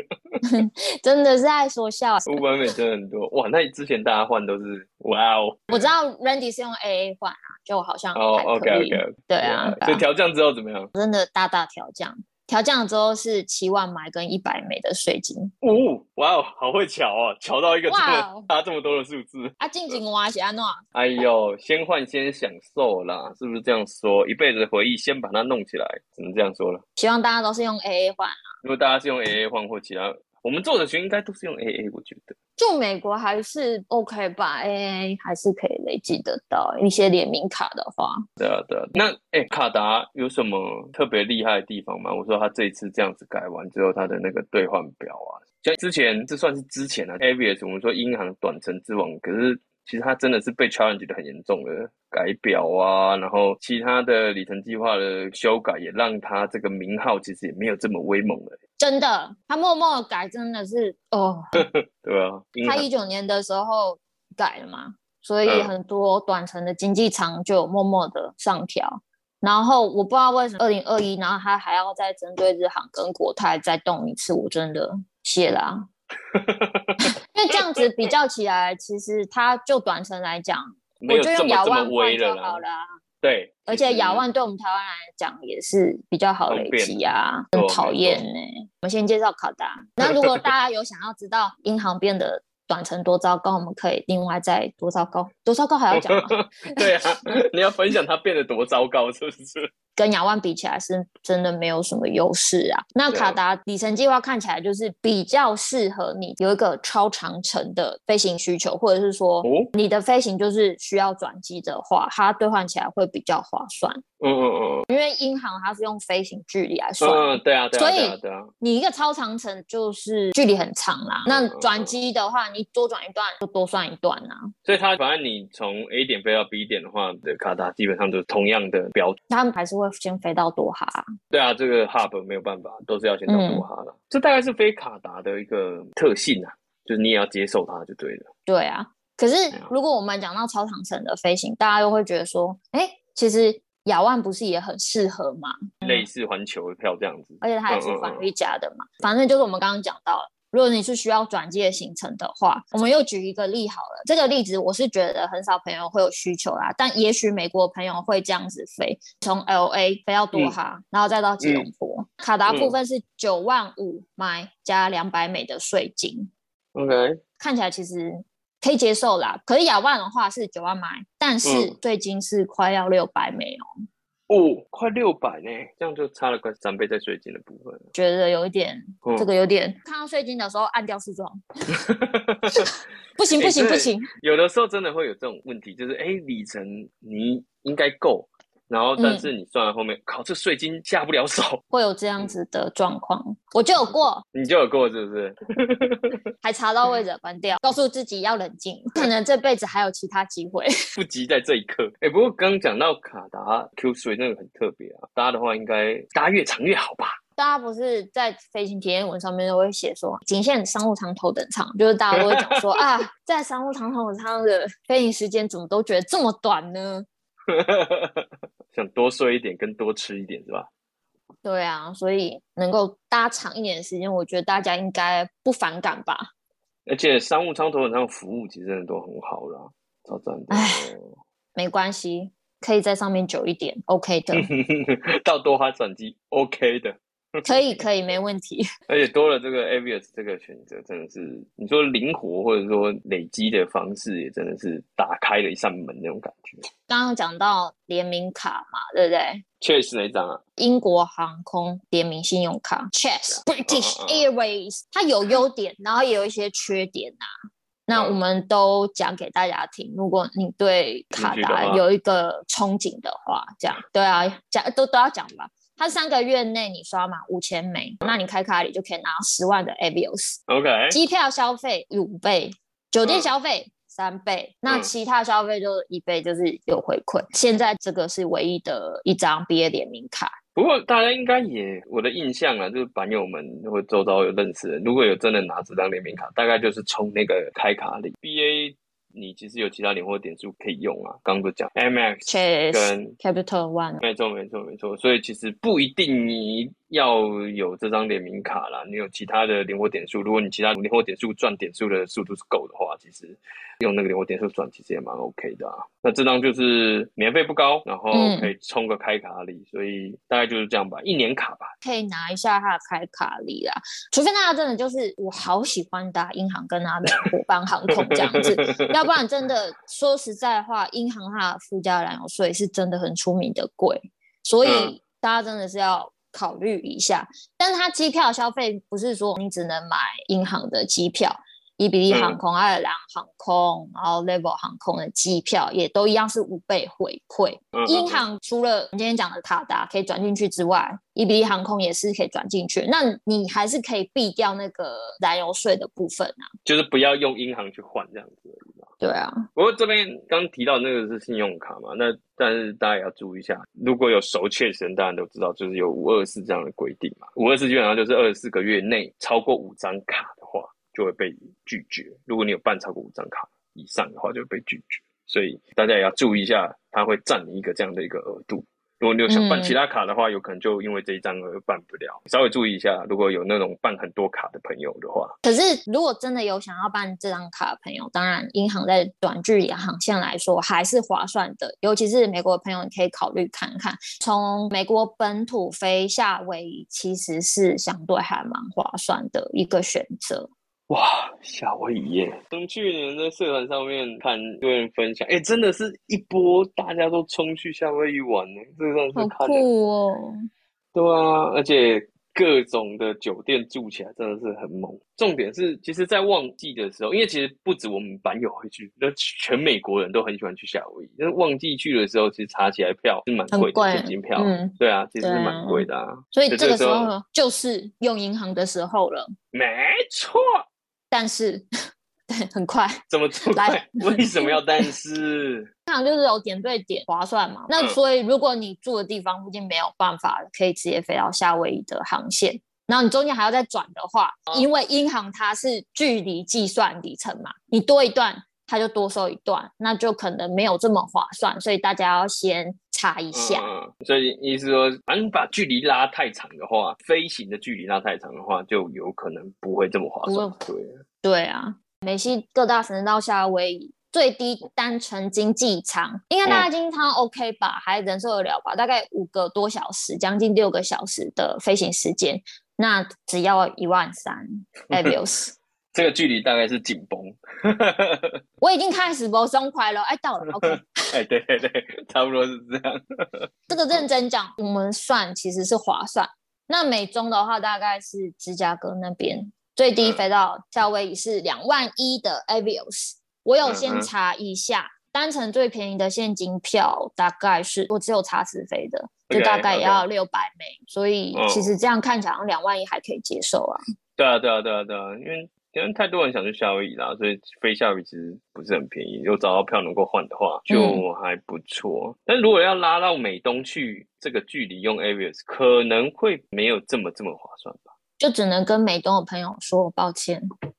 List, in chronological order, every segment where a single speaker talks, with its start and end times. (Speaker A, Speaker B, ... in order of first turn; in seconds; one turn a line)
Speaker A: 0.5-2.4
Speaker B: 2.2-5.9
Speaker A: 5.7-10.0
Speaker B: 8.1-10.9
Speaker A: 10.9-15.5
Speaker B: 15.6-20.0
Speaker A: 17.9-18.5
Speaker A: 19.6-20.8
Speaker B: 20.9-26.8
Speaker A: 27.0-28.4
Speaker B: 28.6-32.3
Speaker A: 32.6-38.2
Speaker B: 38.4-58.5
Speaker A: 58.8-61.4
Speaker B: 61.6-62.9
Speaker A: 62.6-75.8
Speaker B: 65.4-65.7
Speaker B: 76.3-77.0
Speaker A: 77.3-82.8
Speaker B: 81.0-82.6
Speaker B: 83.2-84.2
Speaker A: 83.7-96.8
Speaker B: 86.5-87.0
Speaker B: 87.5-88.2
Speaker B: 90.0-90.4
Speaker B: 95.9-99.7
Speaker A: 100.0-114.0
Speaker B: 103.1-103.4
Speaker B: 109.4-109.7
Speaker B: 114.2-114.8
Speaker A: 114.9-124.4
Speaker B: 117.0-118.5
Speaker B: 121.3-121.9
Speaker B: 124.6-129.2
Speaker A: 129.3-131.0
Speaker B: 131.3-138.3
Speaker A: 133.3-133.7
Speaker A: 138.5-146.0
Speaker B: 145.8-148.3
Speaker A: 147.4-166.3
Speaker B: 161.4-161.7
Speaker B: 162.4-162.8
Speaker B: 166.7-167.2
Speaker A: 167.4-173.6
Speaker B: 171.4-171.7
Speaker B: 174.3-177.9
Speaker A: 177.9-181.4
Speaker B: 179.0-179.3
Speaker B: 181.8-182.7
Speaker A: 182.5-184.1
Speaker B: 183.4-191.6
Speaker A: 189.0-189.3
Speaker A: 191.7-194.2
Speaker B: 194.3-196.1
Speaker A: 196.4-200.7
Speaker B: 200.9-207.2
Speaker A: 207.4-217.0
Speaker B: 212.1-212.6
Speaker B: 217.5-220.7
Speaker A: 221.4-226.2
Speaker B: 226.9-231.1
Speaker A: 230.5-230.9
Speaker A: 231.6-234.5
Speaker B: 234.3-237.8
Speaker A: 237.4-238.6
Speaker B: 238.9-246.6
Speaker A: 246.9-249.4
Speaker B: 249.6-250.4
Speaker A: 250.6-257.3
Speaker B: 253.3-254.2
Speaker A: 257.9-270.4
Speaker B: 257.9-258.2
Speaker B: 261.1-261.8
Speaker B: 270.5-271.0
Speaker A: 270.9-280.3
Speaker B: 273.0-273.3
Speaker B: 280.6-293.1
Speaker A: 292.3-294.0
Speaker B: 294.0-311.7
Speaker A: 308.1-308.5
Speaker A: 311.8-346.4
Speaker B: 318.0-318.9
Speaker B: 324.6-324.9
Speaker B: 332.1-332.4
Speaker B: 337.7-338.2
Speaker B: 346.6-348.9
Speaker A: 349.0-349.4
Speaker B: 349.5-375.3
Speaker A: 369.3-369.8
Speaker A: 375.4-390.5
Speaker B: 390.9-399.6
Speaker A: 399.1-400.4
Speaker B: 400.9-417.1
Speaker A: 413.5-419.3
Speaker B: 419.5-420.4
Speaker A: 421.1-421.6
Speaker A: 422.3-423.0
Speaker B: 423.1-425.7
Speaker A: 423.5-424.6
Speaker A: 425.9-443.7
Speaker B: 443.3-451.0
Speaker A: 450.2-450.6
Speaker A: 451.2-465.5
Speaker B: 465.9-468.3
Speaker A: 468.6-470.9
Speaker B: 470.5-474.0
Speaker A: 473.7-493.8
Speaker B: 483.6-484.1
Speaker B: 489.3-490.0
Speaker B: 491.3-491.7
Speaker B: 494.2-507.9
Speaker A: 500.7-501.0
Speaker A: 508.2-510.4